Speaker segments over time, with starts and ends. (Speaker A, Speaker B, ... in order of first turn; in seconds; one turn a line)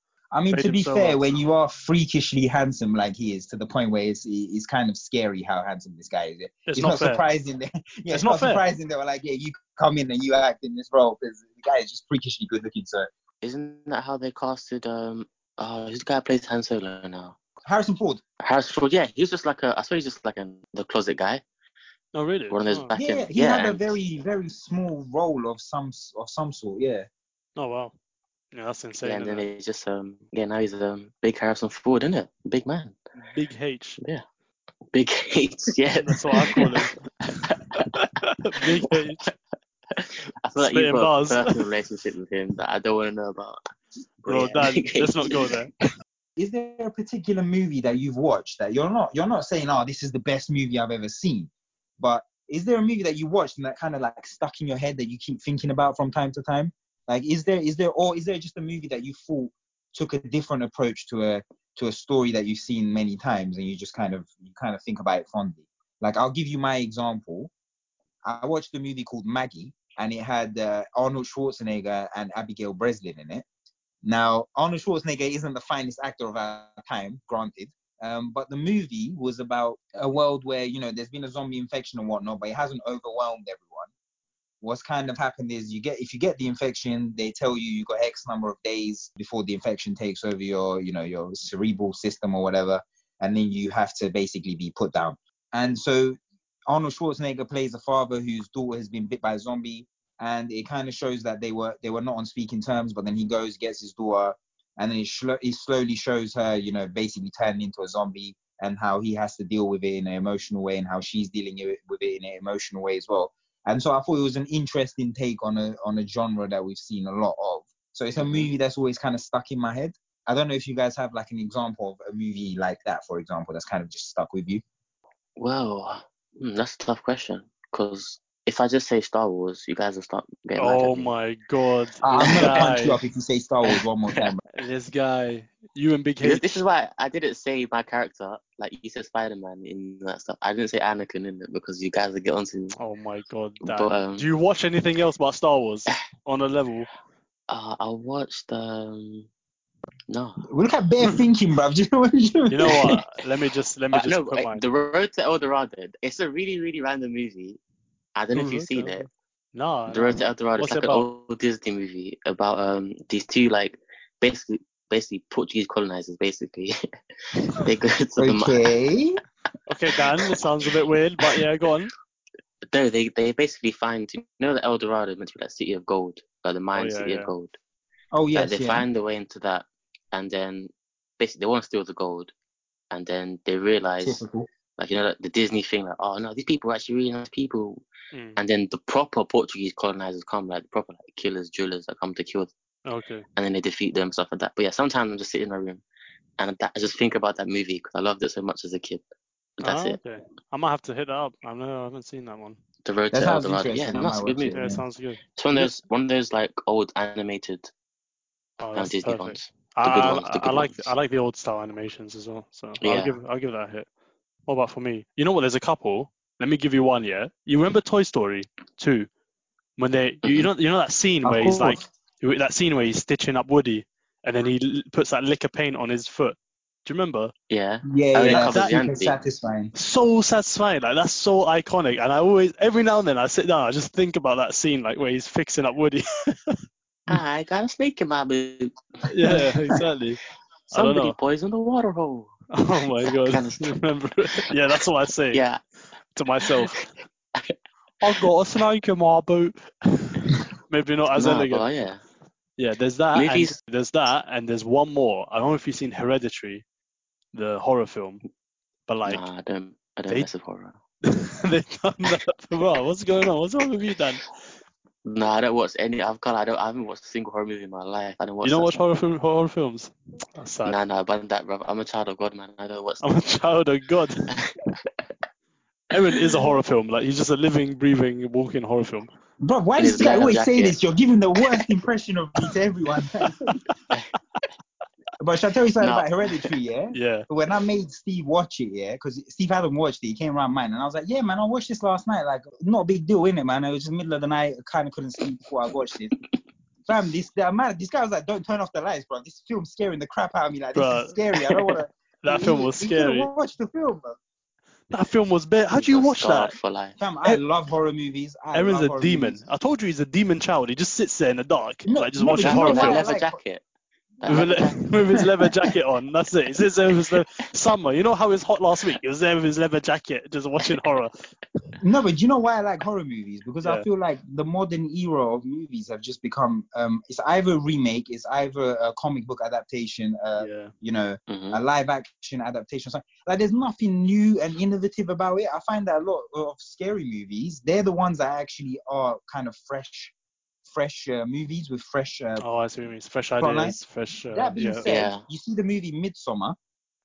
Speaker A: 0.3-13.1
Speaker B: 0.5-1.2
Speaker B: 6.7-7.2
Speaker B: 8.1-8.6
Speaker C: 13.4-17.4
Speaker A: 17.6-18.2
Speaker C: 18.4-21.4
Speaker B: 22.1-22.9
Speaker C: 22.5-23.9
Speaker A: 22.9-27.1
Speaker B: 27.6-27.9
Speaker B: 28.5-29.5
Speaker C: 29.0-33.0
Speaker B: 33.2-34.0
Speaker C: 34.9-37.9
Speaker B: 36.0-37.0
Speaker B: 37.8-39.3
Speaker C: 38.6-39.4
Speaker C: 39.9-43.6
Speaker B: 40.6-41.5
Speaker C: 44.2-45.6
Speaker B: 44.3-45.7
Speaker A: 46.4-67.5
Speaker A: 68.2-73.5
Speaker A: 74.0-83.9
Speaker A: 84.6-96.2
Speaker A: 96.7-124.6
Speaker C: 118.2-118.5
Speaker C: 125.4-131.1
Speaker B: 130.6-133.0
Speaker A: 132.0-134.4
Speaker C: 132.1-132.8
Speaker B: 134.6-136.5
Speaker C: 136.2-142.8
Speaker B: 142.8-146.9
Speaker C: 143.6-144.2
Speaker C: 147.5-149.3
Speaker C: 150.1-150.5
Speaker A: 150.5-153.0
Speaker B: 152.5-154.6
Speaker C: 153.9-157.6
Speaker C: 158.2-159.1
Speaker B: 158.3-161.1
Speaker C: 159.9-166.8
Speaker C: 167.5-168.6
Speaker A: 168.2-169.2
Speaker B: 169.7-171.9
Speaker C: 172.7-177.6
Speaker B: 176.7-177.3
Speaker A: 178.1-178.9
Speaker C: 178.3-182.3
Speaker C: 182.9-184.2
Speaker A: 184.0-184.5
Speaker C: 184.8-187.8
Speaker B: 188.1-188.4
Speaker C: 188.4-192.5
Speaker B: 192.8-193.2
Speaker C: 193.4-195.8
Speaker C: 196.4-199.0
Speaker C: 199.6-200.0
Speaker B: 199.6-202.6
Speaker C: 202.8-204.7
Speaker A: 203.1-204.8
Speaker B: 204.5-205.8
Speaker C: 205.4-207.7
Speaker B: 208.6-213.9
Speaker C: 208.8-210.9
Speaker C: 212.8-213.2
Speaker B: 214.5-219.1
Speaker B: 219.8-227.3
Speaker C: 220.2-220.5
Speaker A: 221.2-221.9
Speaker C: 227.5-229.2
Speaker A: 227.9-229.7
Speaker B: 228.3-228.8
Speaker B: 229.8-236.6
Speaker C: 237.1-238.8
Speaker B: 239.1-240.2
Speaker C: 240.7-242.3
Speaker B: 240.7-241.2
Speaker B: 242.5-245.4
Speaker C: 243.1-243.7
Speaker C: 245.3-245.6
Speaker B: 246.2-246.9
Speaker C: 246.5-247.6
Speaker B: 248.0-251.7
Speaker C: 251.1-252.0
Speaker B: 252.6-256.6
Speaker C: 253.1-253.6
Speaker B: 257.3-258.2
Speaker B: 258.9-259.2
Speaker C: 259.1-260.8
Speaker B: 261.0-264.2
Speaker C: 265.1-268.8
Speaker B: 268.4-270.8
Speaker C: 270.6-273.1
Speaker B: 273.0-274.3
Speaker C: 274.3-274.9
Speaker B: 275.9-279.1
Speaker A: 279.4-283.6
Speaker C: 279.8-280.8
Speaker A: 285.2-296.1
Speaker C: 285.8-286.5
Speaker B: 286.9-287.3
Speaker A: 296.9-304.2
Speaker B: 300.8-301.2
Speaker B: 302.2-303.3
Speaker B: 304.9-306.6
Speaker C: 305.7-307.0
Speaker A: 307.0-309.4
Speaker B: 308.5-313.1
Speaker A: 311.9-313.4
Speaker C: 312.4-313.6
Speaker C: 314.2-315.2
Speaker B: 314.3-321.2
Speaker A: 321.8-340.1
Speaker B: 330.4-330.7
Speaker C: 331.3-331.6
Speaker A: 340.6-342.4
Speaker B: 342.4-344.9
Speaker A: 343.4-343.8
Speaker A: 344.3-346.6
Speaker C: 344.9-345.2